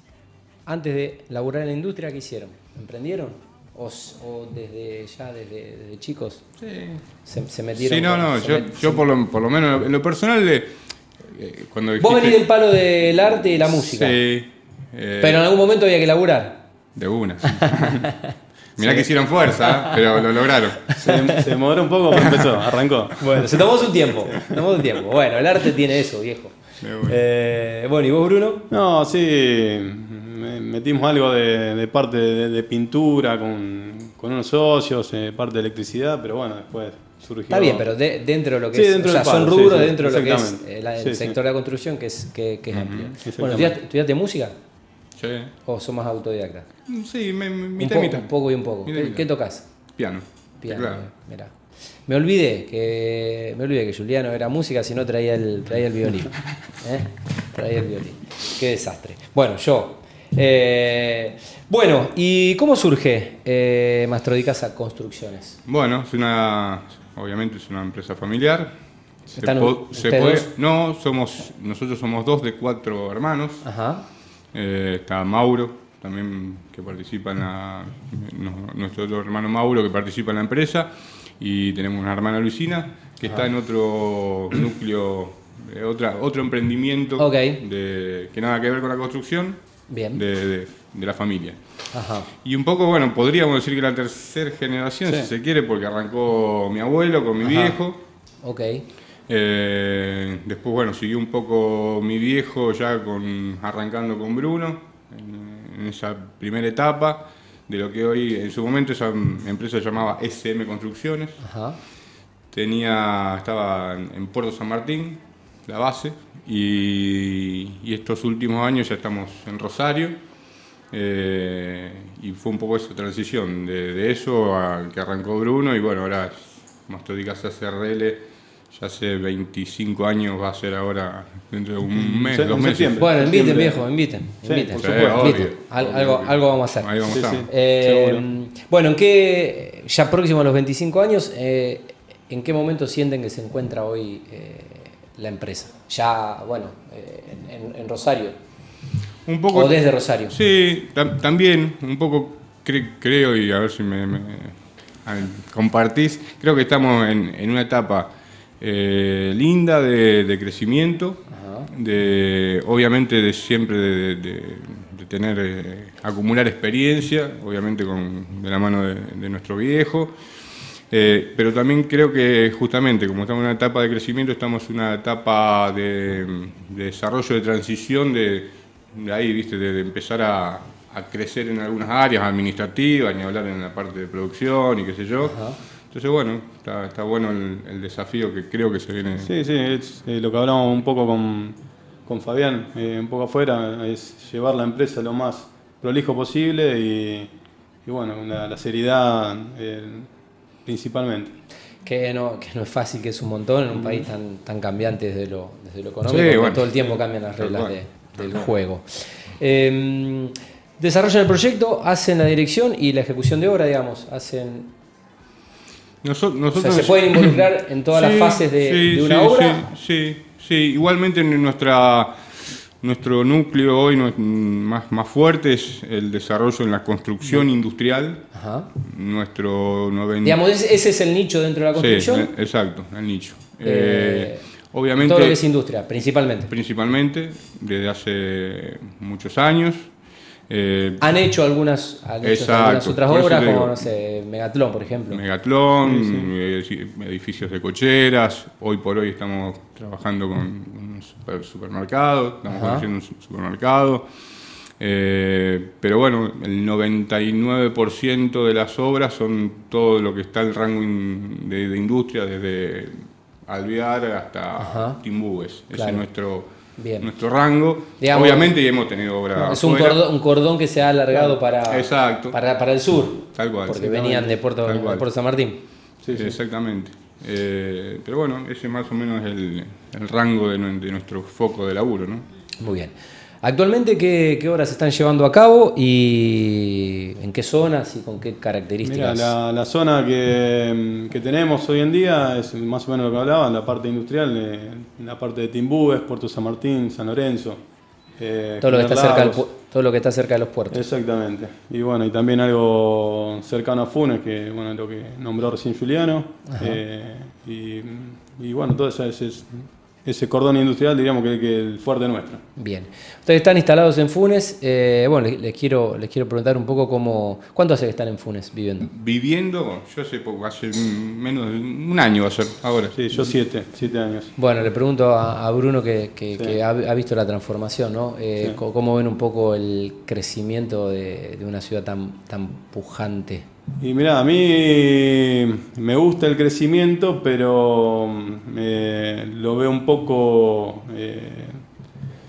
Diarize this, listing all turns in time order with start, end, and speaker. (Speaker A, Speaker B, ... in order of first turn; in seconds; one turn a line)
Speaker A: 0.7-6.5
Speaker B: 6.6-7.0
Speaker A: 7.2-9.1
Speaker B: 7.8-10.7
Speaker B: 11.3-12.5
Speaker A: 12.0-14.2
Speaker B: 13.2-15.4
Speaker A: 15.2-16.6
Speaker B: 16.9-18.1
Speaker A: 17.6-18.1
Speaker B: 18.8-20.9
Speaker C: 20.9-24.6
Speaker B: 22.1-22.6
Speaker A: 23.2-28.7
Speaker B: 26.8-27.2
Speaker C: 28.7-37.9
Speaker A: 37.5-44.5
Speaker C: 38.7-41.4
Speaker B: 42.7-43.2
Speaker C: 43.2-43.8
Speaker B: 45.2-45.5
Speaker A: 45.6-46.7
Speaker B: 46.9-48.3
Speaker A: 47.8-49.7
Speaker B: 48.9-49.3
Speaker B: 50.0-51.0
Speaker A: 50.6-51.5
Speaker A: 52.1-65.6
Speaker B: 65.7-68.7
Speaker B: 69.3-73.7
Speaker A: 69.4-70.5
Speaker A: 73.6-74.0
Speaker B: 74.5-89.6
Speaker A: 87.2-87.6
Speaker A: 89.9-90.2
Speaker B: 90.1-91.6
Speaker A: 91.9-92.3
Speaker B: 92.4-98.0
Speaker A: 97.4-97.8
Speaker A: 98.4-98.8
Speaker B: 99.3-111.4
Speaker A: 111.4-111.8
Speaker B: 112.5-120.2
Speaker B: 120.9-133.0
Speaker C: 131.9-133.9
Speaker A: 133.0-136.9
Speaker C: 134.4-135.3
Speaker B: 134.7-137.5
Speaker C: 137.1-138.3
Speaker A: 137.5-148.3
Speaker B: 149.3-170.1
Speaker A: 149.5-150.4
Speaker A: 161.3-161.7
Speaker B: 170.9-189.3
Speaker A: 185.2-185.6
Speaker C: 189.2-197.3
Speaker C: 197.8-200.1
Speaker C: 200.7-201.3
Speaker A: 201.8-208.8
Speaker B: 206.1-207.8
Speaker A: 209.4-214.7
Speaker B: 216.0-222.1
Speaker A: 216.5-219.7
Speaker B: 222.8-228.3
Speaker A: 228.3-228.7
Speaker B: 228.8-230.4
Speaker A: 230.2-232.3
Speaker B: 231.8-235.4
Speaker A: 233.6-234.4
Speaker A: 235.0-236.5
Speaker B: 236.5-239.9
Speaker B: 240.5-241.1
Speaker A: 241.0-245.2
Speaker B: 242.2-243.9
Speaker B: 245.1-254.1
Speaker C: 245.8-246.3
Speaker A: 252.5-252.9
Speaker B: 254.8-262.9
Speaker B: 263.5-270.1
Speaker A: 264.6-265.0
Speaker A: 265.7-266.0
Speaker A: 266.8-267.1
Speaker A: 268.0-268.6
Speaker A: 269.4-275.6
Speaker B: 271.7-272.4
Speaker B: 273.4-275.1
Speaker C: 276.0-276.4
Speaker B: 276.1-282.2
Speaker A: 282.6-289.4
Speaker C: 288.8-297.6
Speaker C: 298.2-299.4
Speaker A: 298.6-300.8
Speaker C: 300.7-312.4
Speaker A: 306.5-306.8
Speaker A: 312.6-318.9
Speaker B: 318.8-323.0
Speaker C: 322.9-324.3
Speaker A: 324.4-333.4
Speaker C: 333.8-341.6